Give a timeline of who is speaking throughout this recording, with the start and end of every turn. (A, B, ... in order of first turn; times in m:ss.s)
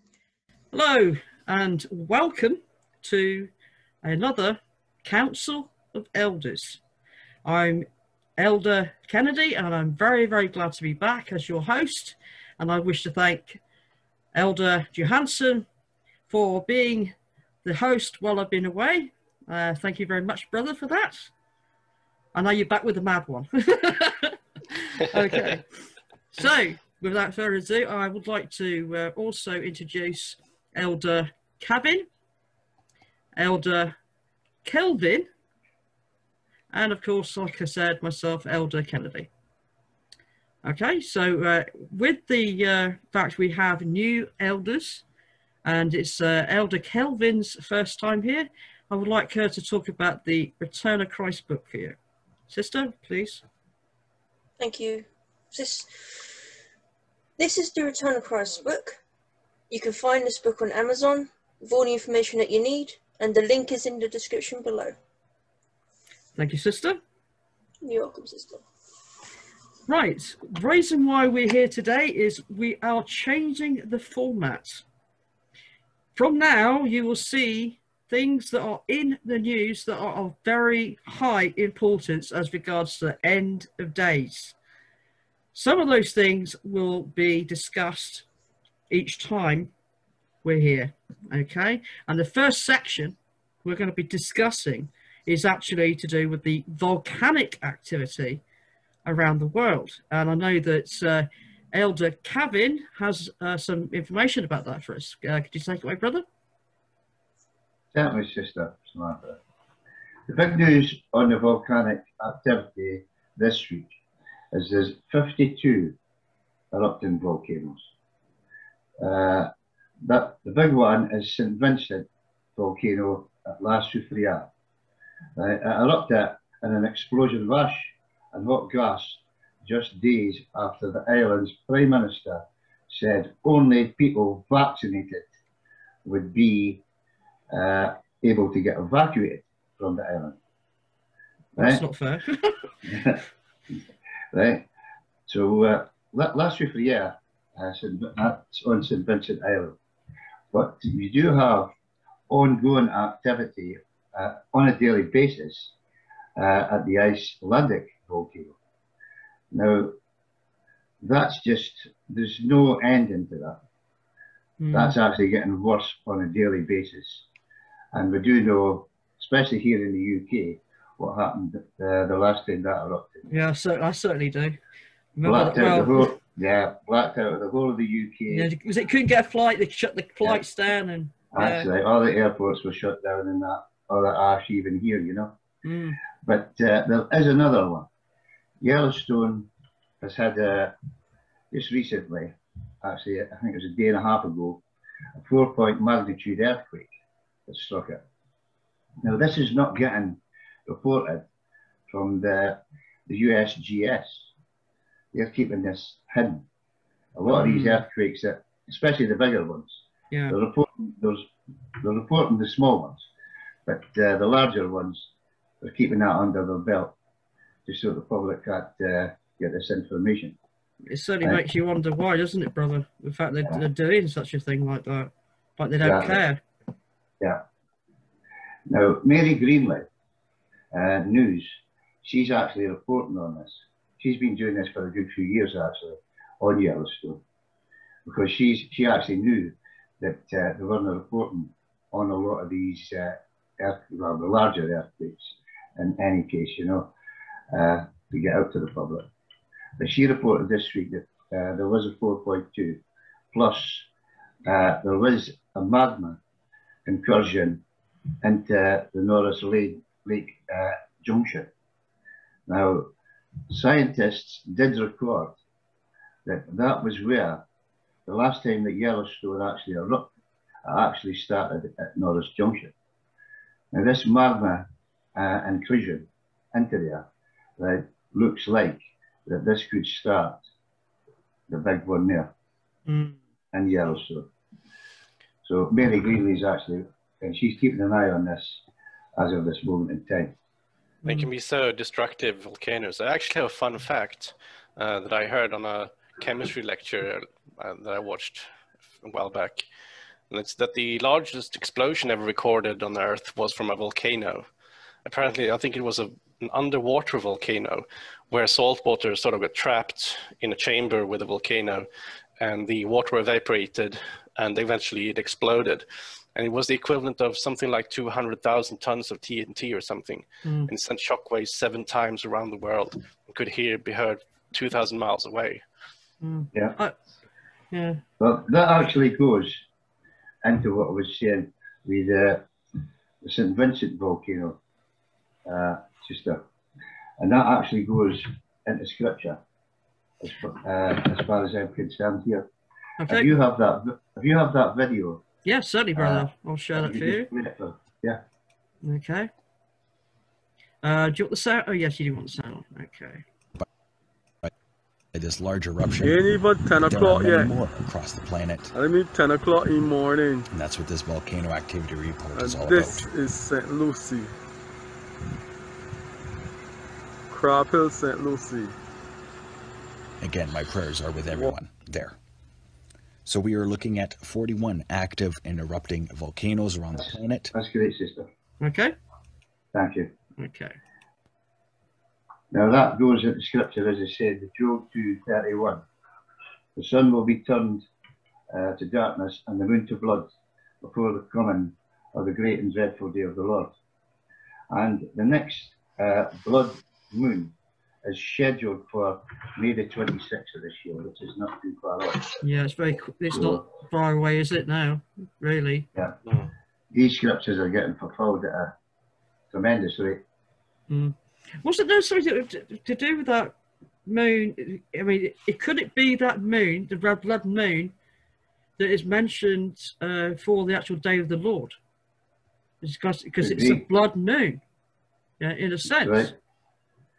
0:00.7-0:03.5 A
0:04.0-0:06.8 A
0:07.4-0:07.9 A
0:08.4-0:13.6 A
0:14.3-0:15.7 A
0:16.3-0:21.3 A
0:22.3-0:25.7 A
0:26.3-0:32.1 A
0:33.4-0:34.0 A
0:34.6-0:35.3 A
0:36.7-0:39.3 A
0:40.6-0:45.0 A
0:45.6-0:52.0 A
0:52.5-0:53.4 A
0:54.6-0:56.3 B
0:57.4-0:59.0 B
0:59.7-1:05.0 B
1:06.4-1:07.0 A
1:07.8-1:08.6 B
1:09.9-1:14.8 A
1:16.1-1:24.6 A
1:25.5-1:28.2 A
1:28.9-1:29.7 A
1:30.4-1:38.4 A
1:39.0-1:46.2 A
1:47.9-1:49.4 C
1:50.3-1:53.9 C
1:54.5-1:56.0 C
1:56.7-1:57.9 C
1:59.0-1:59.5 C
2:00.0-2:04.5 C
2:05.4-2:15.2 C
2:16.0-2:16.8 C
2:17.5-2:20.4 C
2:21.6-2:22.7 A
2:21.6-2:21.8 C
2:22.8-2:23.2 C
2:24.3-2:24.7 C
2:25.3-2:29.8 C
2:30.5-2:31.7 C
2:32.3-2:35.7 C
2:36.4-2:38.6 C
2:39.5-2:40.0 C
2:41.0-2:43.6 C
2:44.6-2:44.9 A
2:44.7-2:47.2 C
2:47.9-2:53.3 C
2:53.3-2:54.6 A
2:55.2-2:56.2 A
2:55.2-2:58.5 C
2:58.3-3:01.7 A
3:01.3-3:05.4 C
3:05.6-3:06.0 A
3:06.2-3:07.9 C
3:08.6-3:09.5 C
3:10.0-3:10.8 C
3:11.5-3:14.6 C
3:15.2-3:16.9 C
3:17.5-3:18.0 C
3:19.0-3:21.2 C
3:21.9-3:24.3 C
3:25.1-3:26.5 C
3:27.2-3:33.1 C
3:27.3-3:27.8 A
3:33.7-3:37.0 C
3:37.7-3:40.4 C
3:40.9-3:46.4 A
3:45.8-3:46.2 C
3:48.7-3:49.8 C
3:50.7-3:57.2 C
3:58.0-4:06.9 C
4:07.5-4:09.1 C
4:09.8-4:12.8 C
4:13.3-4:13.9 C
4:14.4-4:16.2 C
4:16.9-4:17.6 C
4:18.2-4:21.5 C
4:22.5-4:22.9 C
4:23.5-4:25.4 C
4:26.2-4:27.4 C
4:28.0-4:30.1 C
4:30.6-4:32.7 C
4:33.7-4:37.1 C
4:37.6-4:40.4 C
4:41.5-4:42.3 C
4:42.9-4:43.2 A
4:43.5-4:44.3 C
4:45.4-4:48.6 C
4:49.2-4:50.4 C
4:51.0-4:58.5 D
4:59.0-4:59.6 D
5:00.3-5:04.5 D
5:05.0-5:11.9 D
5:12.4-5:25.6 D
5:20.4-5:20.7 A
5:26.2-5:27.0 A
5:27.7-5:28.0 A
5:28.2-5:29.6 C
5:30.4-5:32.5 C
5:33.2-5:34.6 C
5:35.5-5:36.4 C
5:37.2-5:39.4 C
5:40.2-5:42.5 C
5:43.0-5:43.3 A
5:43.1-5:45.2 C
5:45.4-5:47.3 A
5:46.0-5:48.2 C
5:48.8-5:49.3 A
5:50.8-5:53.2 A
5:55.1-5:58.7 E
5:56.0-5:57.6 F
5:58.7-6:00.5 F
6:00.5-6:03.0 E
6:02.3-6:04.3 F
6:07.3-6:08.8 F
6:10.2-6:12.2 E
6:13.2-6:17.5 E
6:17.0-6:18.2 C
6:18.6-6:19.0 A
6:19.7-6:20.1 C
6:20.4-6:20.8 A
6:22.5-6:25.9 C
6:26.8-6:27.8 C
6:28.5-6:30.3 C
6:30.8-6:33.7 C
6:34.7-6:42.4 C
6:42.4-6:45.9 A
6:43.3-6:43.6 C
6:46.9-6:48.8 C
6:49.5-6:50.2 C
6:50.9-6:53.5 A
6:54.0-6:57.9 A
6:58.8-7:01.8 A
7:02.8-7:04.6 A
7:03.4-7:03.8 C
7:05.4-7:06.3 A
7:06.0-7:06.3 C